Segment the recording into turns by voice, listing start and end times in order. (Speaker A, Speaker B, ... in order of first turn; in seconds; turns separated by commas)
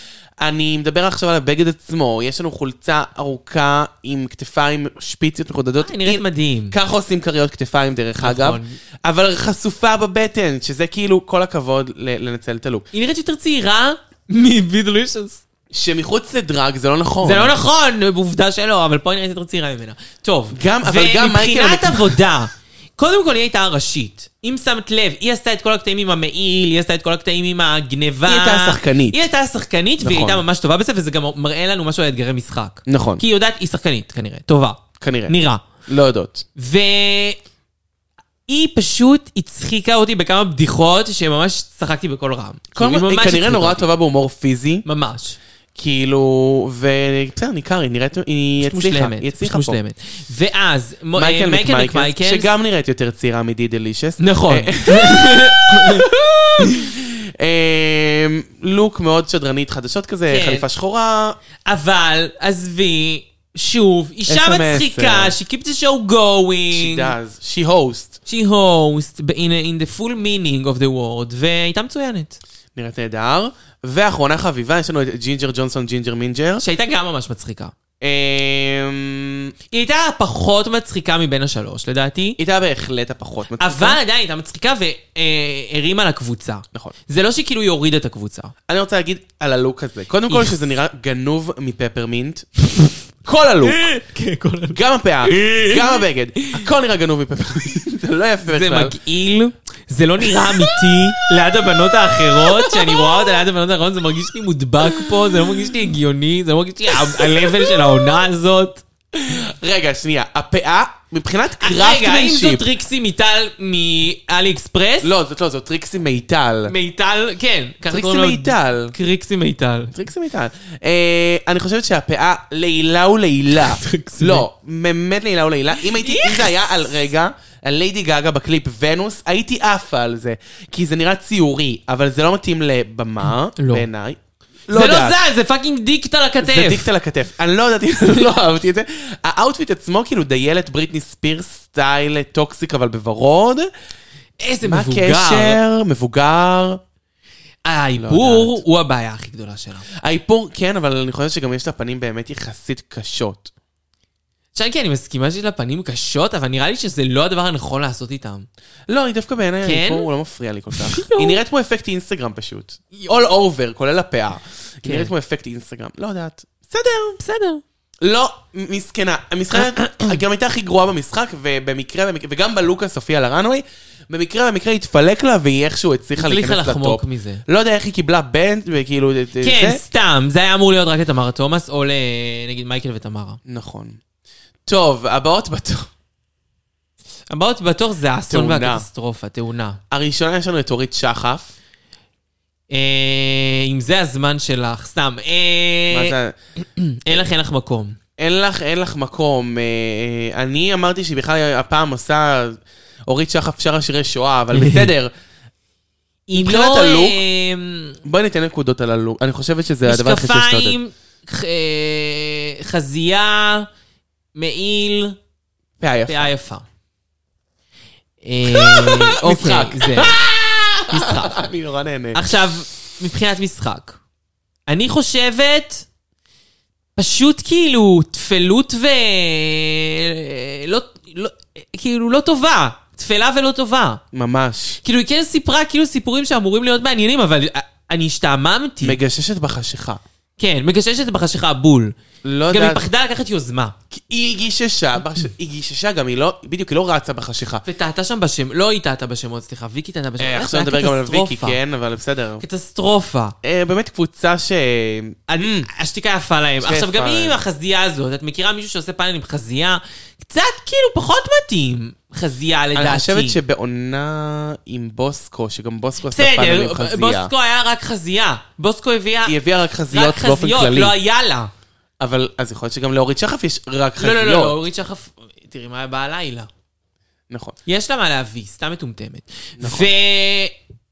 Speaker A: 0.4-12.9, Speaker B: 5.8-6.8, Speaker B: 8.2-8.8, Speaker B: 12.9-15.4, Speaker A: 15.7-17.5, Speaker B: 17.2-35.6, Speaker A: 20.5-22.2, Speaker A: 28.2-29.3, Speaker A: 30.0-30.4, Speaker A: 32.9-33.2, Speaker A: 35.0-36.5, Speaker B: 36.6-37.4, Speaker B: 38.5-43.8, Speaker A: 42.8-44.8, Speaker B: 44.8-45.4, Speaker A: 45.7-49.8, Speaker B: 48.6-52.5, Speaker A: 51.1-61.4, Speaker B: 54.2-56.1, Speaker B: 60.3-60.6, Speaker B: 61.7-67.1, Speaker A: 64.3-65.3, Speaker A: 66.7-68.2, Speaker B: 68.2-72.4, Speaker A: 72.7-76.6, Speaker B: 76.6-77.7, Speaker A: 78.0-79.5, Speaker B: 79.7-82.4, Speaker A: 82.4-84.0, Speaker B: 83.6-88.5, Speaker A: 88.7-92.5, Speaker B: 90.3-90.5, Speaker A: 93.2-93.8, Speaker B: 93.7-96.5, Speaker A: 94.7-99.0, Speaker B: 98.5-108.8, Speaker A: 100.2-101.3, Speaker A: 101.8-103.3, Speaker A: 104.8-105.7, Speaker A: 106.9-108.1, Speaker A: 109.1-112.7, Speaker B: 111.6-115.1, Speaker A: 115.0-116.7, Speaker B: 116.7-119.9, Speaker A: 117.8-118.9, Speaker A: 119.9-135.2, Speaker B: 123.6-124.5, Speaker B: 125.8-126.6, Speaker B: 133.6-133.9, Speaker B: 134.7-136.9, Speaker A: 136.4-143.7, Speaker B: 144.4-145.6, Speaker A: 144.6-146.8, Speaker B: 147.6-149.9, Speaker A: 148.0-148.6, Speaker A: 150.0-153.5, Speaker B: 154.5-158.5, Speaker A: 158.9-167.2, Speaker B: 159.6-160.1, Speaker B: 160.7-161.4, Speaker B: 164.8-165.1, Speaker B: 167.2-167.6, Speaker A: 168.0-179.8, Speaker B: 169.8-170.1, Speaker B: 176.2-177.4, Speaker B: 179.4-183.4, Speaker A: 183.4-184.0, Speaker A: 184.7-185.9, Speaker B: 187.3-189.8, Speaker A: 188.3-188.8, Speaker A: 189.9-191.5, Speaker B: 192.7-198.0, Speaker A: 195.9-196.3, Speaker A: 198.2-205.1, Speaker B: 204.5-204.9, Speaker B: 206.3-208.0, Speaker A: 206.3-207.2, Speaker A: 208.0-210.8, Speaker B: 209.8-213.7, Speaker B: 214.3-215.2, Speaker A: 215.8-216.3, Speaker B: 216.1-216.7, Speaker B: 218.2-220.2, Speaker A: 218.5-222.2, Speaker B: 220.9-221.4, Speaker B: 222.1-224.0, Speaker B: 224.7-225.8, Speaker B: 226.9-234.0, Speaker A: 234.1-234.8, Speaker B: 234.8-239.0, Speaker A: 238.8-240.0, Speaker B: 240.4-241.9, Speaker A: 242.2-242.8, Speaker B: 242.5-243.7, Speaker A: 243.9-247.6, Speaker B: 247.6-251.6, Speaker A: 250.2-252.4, Speaker B: 252.4-253.3, Speaker A: 253.4-255.7, Speaker B: 255.3-263.4, Speaker A: 256.6-257.4, Speaker A: 262.7-267.3, Speaker B: 266.1-269.4, Speaker A: 269.2-270.9, Speaker B: 269.9-271.5, Speaker A: 272.0-274.6, Speaker B: 274.0-276.5, Speaker A: 277.3-277.6, Speaker B: 277.6-280.5, Speaker A: 279.6-279.9